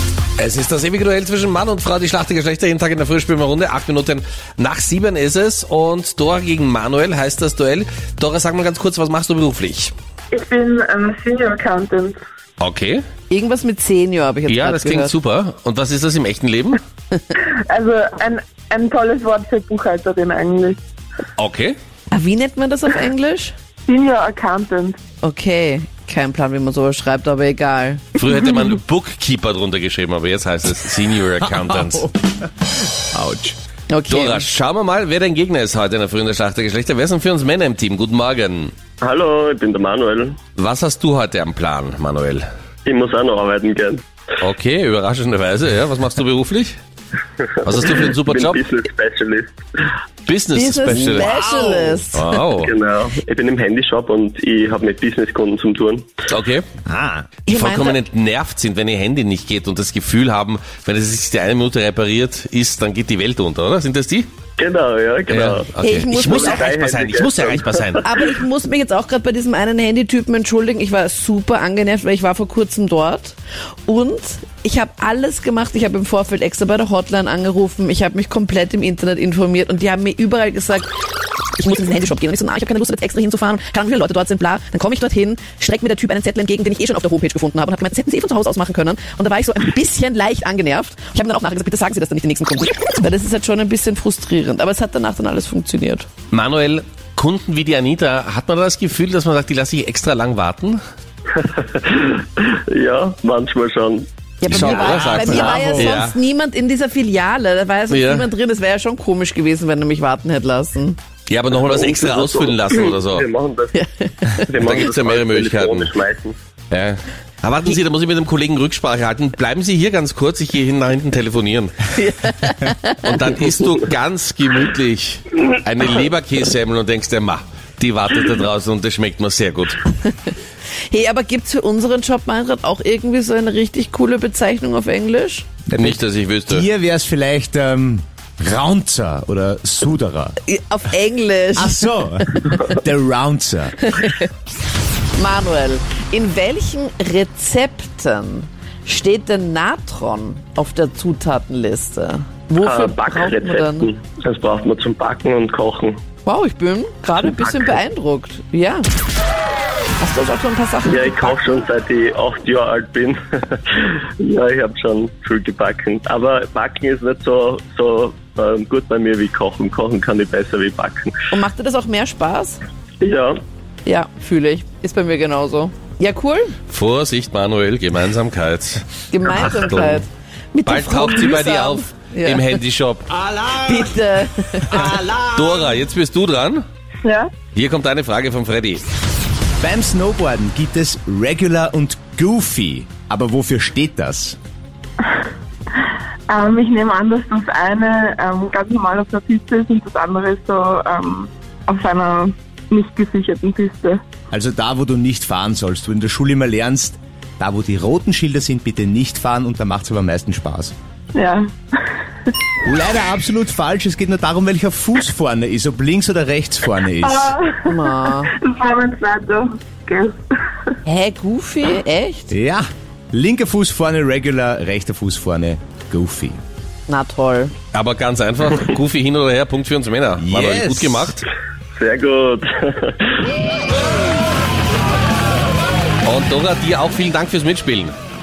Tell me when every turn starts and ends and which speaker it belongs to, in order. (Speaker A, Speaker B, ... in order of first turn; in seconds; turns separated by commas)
Speaker A: 0.4-9.9, Speaker B: 10.3-12.2, Speaker A: 12.6-13.0, Speaker C: 13.3-15.1, Speaker A: 14.5-16.8, Speaker B: 17.4-20.8, Speaker A: 21.4-21.8, Speaker C: 22.1-23.5, Speaker B: 23.9-25.0, Speaker C: 25.2-28.2, Speaker A: 28.1-32.0, Speaker D: 31.5-33.5, Speaker C: 33.9-34.5, Speaker A: 34.1-38.7, Speaker E: 39.0-40.4, Speaker A: 40.5-42.4, Speaker E: 42.8-44.0, Speaker A: 44.4-46.8, Speaker E: 47.4-49.6, Speaker A: 47.6-48.6, Speaker A: 50.2-51.4, Speaker C: 50.5-52.3, Speaker D: 50.9-52.0, Speaker A: 52.1-52.7, Speaker E: 52.6-56.1, Speaker A: 56.3-56.6, Speaker D: 56.9-57.3, Speaker A: 57.5-64.3, Speaker C: 57.5-58.0, Speaker E: 64.6-68.0, Speaker A: 65.3-68.0, Speaker C: 65.8-66.7, Speaker C: 68.0-80.9, Speaker C: 81.6-96.1, Speaker A: 96.3-100.8, Speaker E: 101.3-104.1, Speaker C: 104.4-111.0, Speaker A: 104.5-106.2, Speaker D: 104.5-106.0, Speaker A: 107.9-108.3, Speaker A: 111.3-113.3, Speaker E: 111.5-116.4, Speaker C: 113.7-114.5, Speaker A: 114.6-115.9, Speaker A: 116.7-121.9, Speaker C: 122.0-123.2, Speaker A: 123.0-129.8, Speaker C: 130.9-135.5, Speaker D: 135.7-140.4, Speaker A: 135.7-136.7, Speaker C: 140.4-142.6, Speaker D: 141.6-143.9, Speaker C: 143.9-144.3, Speaker C: 145.2-153.9, Speaker E: 152.6-156.0, Speaker C: 156.2-158.8, Speaker E: 157.2-157.8, Speaker C: 160.0-161.4, Speaker E: 160.9-171.1, Speaker C: 171.3-172.6, Speaker E: 173.0-173.3, Speaker C: 173.8-176.5, Speaker A: 176.7-180.0, Speaker C: 179.1-182.6, Speaker A: 180.6-183.1, Speaker D: 183.1-183.9, Speaker C: 183.6-184.9, Speaker D: 184.7-185.8, Speaker A: 185.3-186.6, Speaker B: 187.0-187.3, Speaker A: 187.5-188.8, Speaker D: 189.6-194.4, Speaker B: 196.3-204.0, Speaker D: 204.3-210.7, Speaker B: 211.1-211.5, Speaker D: 212.6-217.3, Speaker B: 217.0-220.2, Speaker C: 217.7-218.3, Speaker C: 220.8-222.3, Speaker D: 222.3-226.4, Speaker C: 226.9-227.5, Speaker A: 227.7-231.2, Speaker D: 230.2-231.1, Speaker E: 231.7-233.0, Speaker A: 236.0-237.9